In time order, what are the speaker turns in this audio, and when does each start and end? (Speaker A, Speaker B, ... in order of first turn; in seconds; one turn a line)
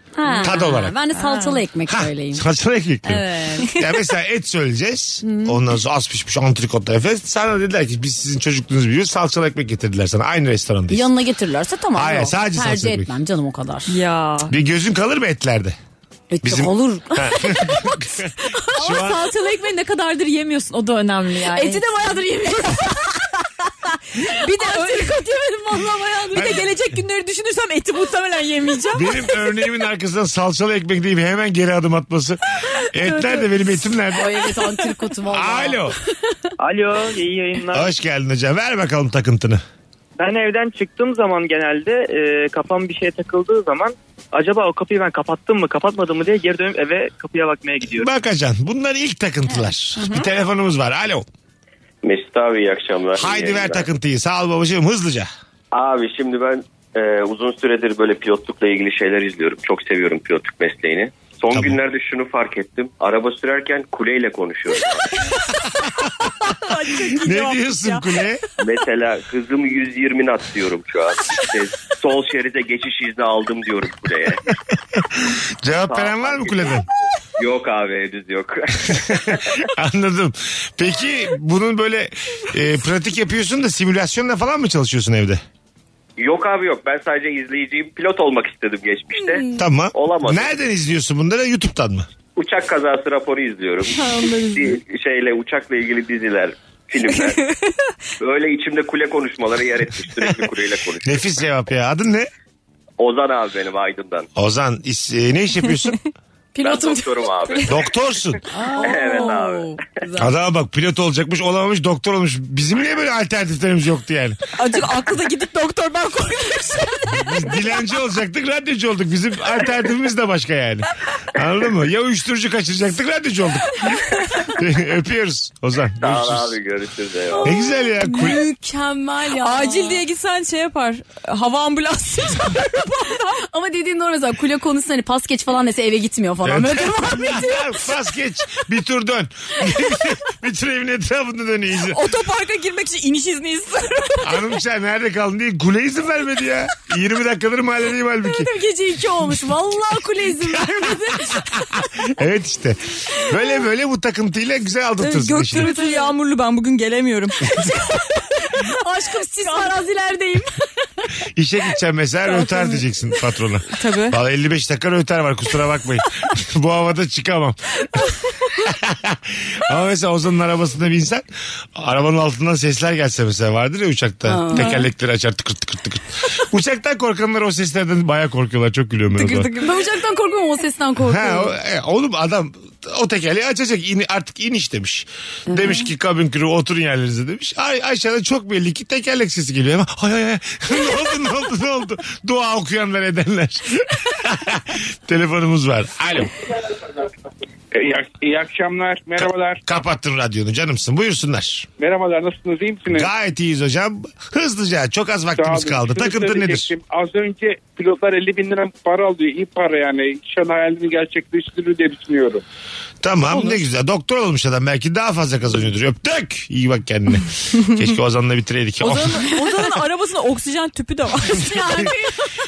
Speaker A: 0.2-2.4
Speaker B: 0.2-1.6
Speaker C: 0.4-0.9
Speaker C: 1.9-11.1
Speaker A: 3.0-3.7
Speaker B: 5.2-5.5
Speaker A: 10.9-13.9
Speaker C: 11.9-13.1
Speaker B: 13.9-14.5
Speaker C: 14.5-15.8
Speaker A: 16.3-18.0
Speaker C: 16.4-19.3
Speaker B: 18.7-23.2
Speaker A: 21.5-22.9
Speaker B: 24.1-29.2
Speaker A: 24.4-26.3
Speaker C: 26.3-26.6
Speaker C: 28.9-34.4
Speaker A: 34.1-35.9
Speaker C: 35.3-35.9
Speaker D: 36.6-37.9
Speaker C: 37.7-39.6
Speaker D: 40.2-48.1
Speaker C: 47.9-51.2
Speaker E: 52.0-53.9
Speaker C: 53.1-55.3
Speaker E: 55.7-65.0
Speaker C: 61.5-61.8
Speaker B: 66.0-68.1
Speaker C: 67.2-68.4
Speaker E: 68.6-74.4
Speaker C: 75.0-76.9
Speaker E: 75.9-79.7
Speaker C: 79.3-85.4
Speaker E: 86.2-90.6
Speaker C: 89.5-92.1
Speaker E: 92.4-97.4
Speaker A: 94.0-94.3
Speaker B: 94.0-94.8
Speaker B: 97.1-97.6
Speaker E: 98.2-101.3
Speaker C: 100.2-100.5
Speaker C: 101.0-102.3
Speaker E: 103.0-104.3
Speaker C: 104.3-106.0
Speaker A: 106.5-107.3
Speaker E: 106.6-107.8
Speaker C: 107.7-108.4
Speaker A: 108.5-110.3
Speaker E: 108.8-109.7
Speaker C: 110.2-114.4
Speaker B: 114.6-117.4
Speaker C: 117.1-123.8
Speaker C: 124.5-126.6
Speaker E: 126.0-127.5
Speaker A: 127.3-130.0
Speaker C: 127.4-128.4
Speaker B: 129.3-133.3
Speaker A: 133.4-137.7
Speaker C: 136.4-142.0
Speaker B: 141.9-144.6
Speaker C: 144.2-148.5
Speaker A: 148.2-151.5
Speaker C: 152.1-155.7
Speaker B: 155.0-159.9
Speaker A: 155.6-156.1
Speaker A: 158.6-160.5
Speaker C: 161.3-167.6
Speaker B: 162.4-162.8
Speaker B: 163.7-164.2
Speaker C: 168.6-179.5
Speaker A: 174.3-174.8
Speaker B: 174.5-174.9
Speaker B: 179.1-180.0
Speaker A: 179.6-181.5
Speaker C: 181.0-196.3
Speaker F: 197.7-199.6
Speaker C: 199.2-201.7
Speaker F: 201.8-203.1
Speaker C: 202.9-206.7
Speaker F: 205.4-212.4
Speaker C: 213.0-219.3
Speaker B: 218.8-221.9
Speaker A: 221.3-222.3